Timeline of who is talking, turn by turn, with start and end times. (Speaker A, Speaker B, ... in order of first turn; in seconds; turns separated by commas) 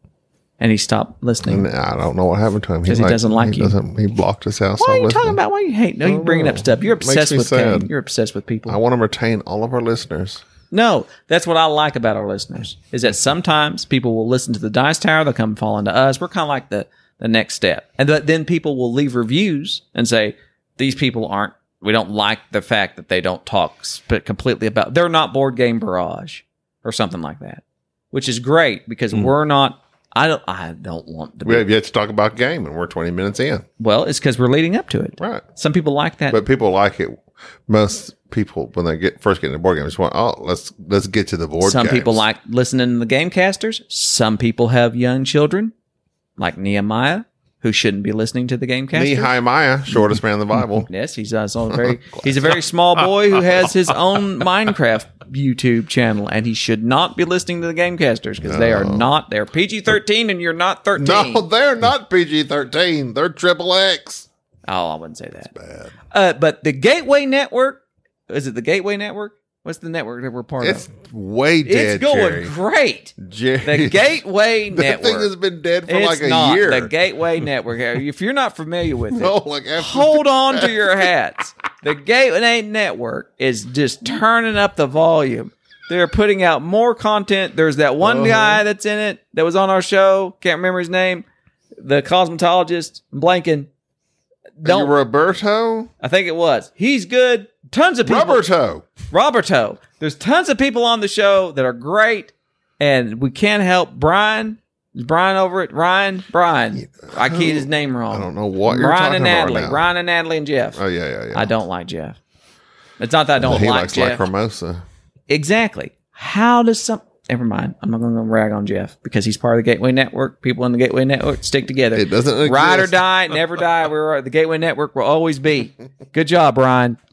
Speaker A: 0.6-1.7, Speaker B: 1.4-5.4, Speaker A: 2.9-3.8, Speaker A: 4.8-8.8, Speaker B: 6.0-7.9, Speaker B: 8.7-10.4, Speaker A: 10.7-31.7, Speaker B: 31.4-33.6, Speaker A: 33.8-36.4, Speaker B: 35.2-35.4, Speaker B: 36.3-42.2, Speaker A: 41.6-45.7, Speaker A: 46.4-49.3, Speaker B: 48.9-50.9, Speaker A: 50.9-61.5, Speaker B: 52.1-52.5, Speaker B: 58.4-59.1, Speaker B: 61.0-64.3, Speaker A: 64.7-65.5, Speaker B: 65.5-65.9, Speaker A: 66.1-70.9, Speaker B: 70.6-72.5, Speaker A: 71.7-75.3, Speaker B: 73.2-74.2, Speaker B: 74.7-76.9, Speaker A: 75.9-91.3, Speaker B: 79.1-80.9, Speaker B: 88.0-88.6, Speaker A: 91.8-93.7, Speaker A: 94.6-94.9, Speaker B: 94.6-95.9, Speaker A: 96.0-98.5, Speaker B: 98.0-98.9, Speaker A: 99.1-110.8, Speaker B: 106.8-109.8, Speaker B: 110.8-111.5, Speaker A: 111.3-112.2, Speaker A: 113.0-114.3, Speaker B: 113.4-114.8, Speaker A: 115.3-127.0, Speaker B: 121.9-123.0